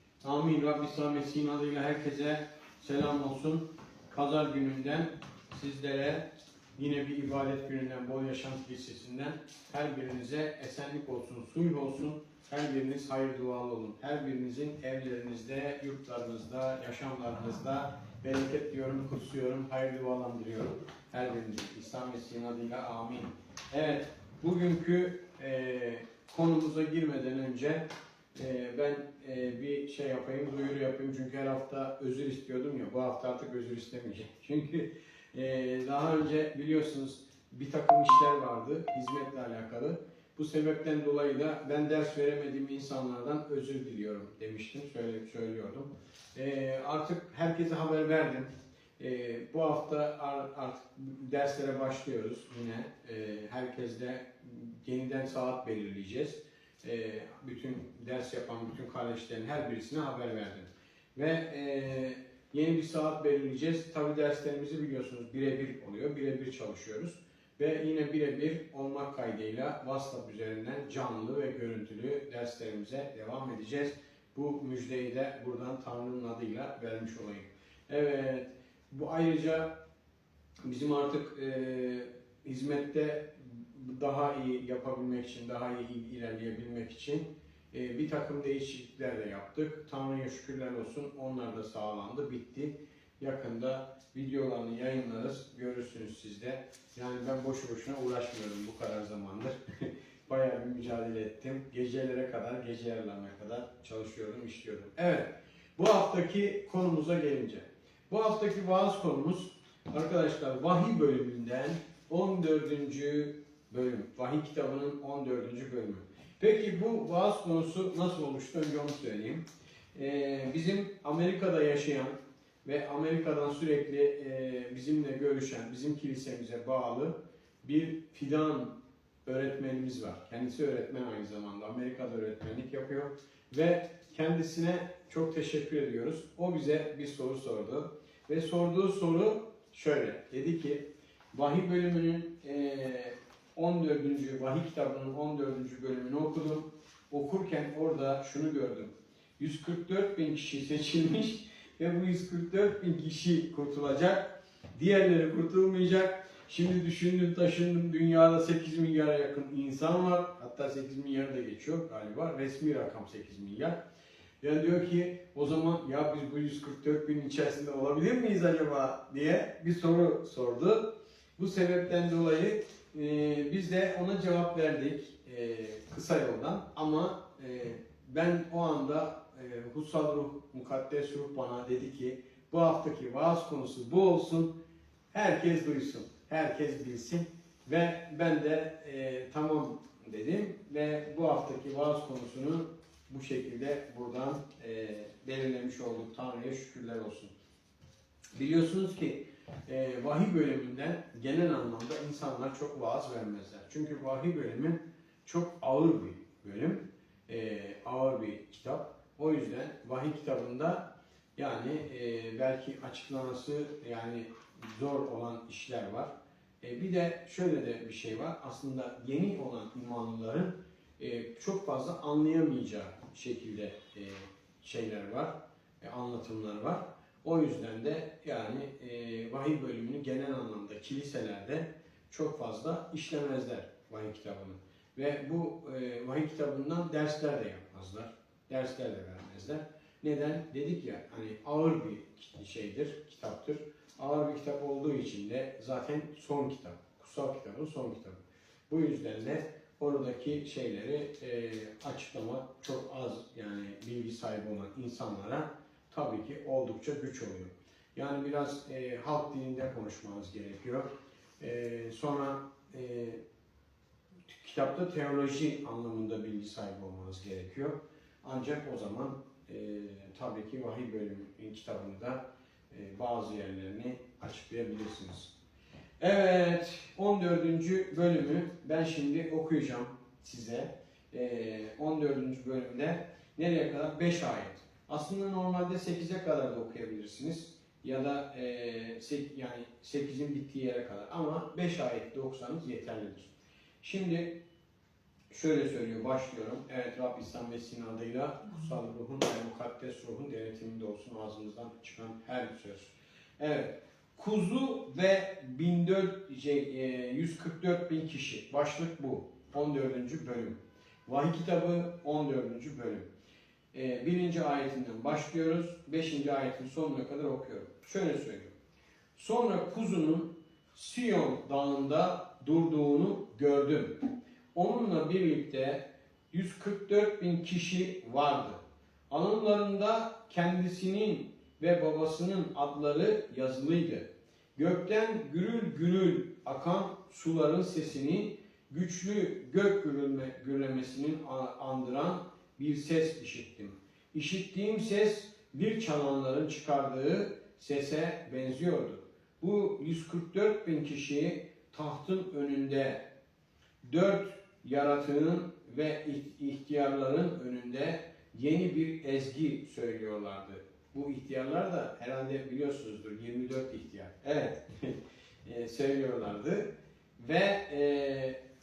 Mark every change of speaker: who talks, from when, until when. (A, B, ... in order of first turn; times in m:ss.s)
0:00.2-1:19.7 A
1:20.6-2:43.8 A
2:44.4-3:04.5 A
3:05.1-3:17.3 A
3:18.3-3:36.1 A
3:36.6-4:20.9 A
4:21.4-4:23.2 A
4:24.3-4:35.3 A
4:36.0-4:54.4 A
4:55.3-5:13.1 A
5:13.7-5:18.5 A
5:19.1-5:24.0 A
5:24.5-5:53.0 A
5:53.8-6:08.4 A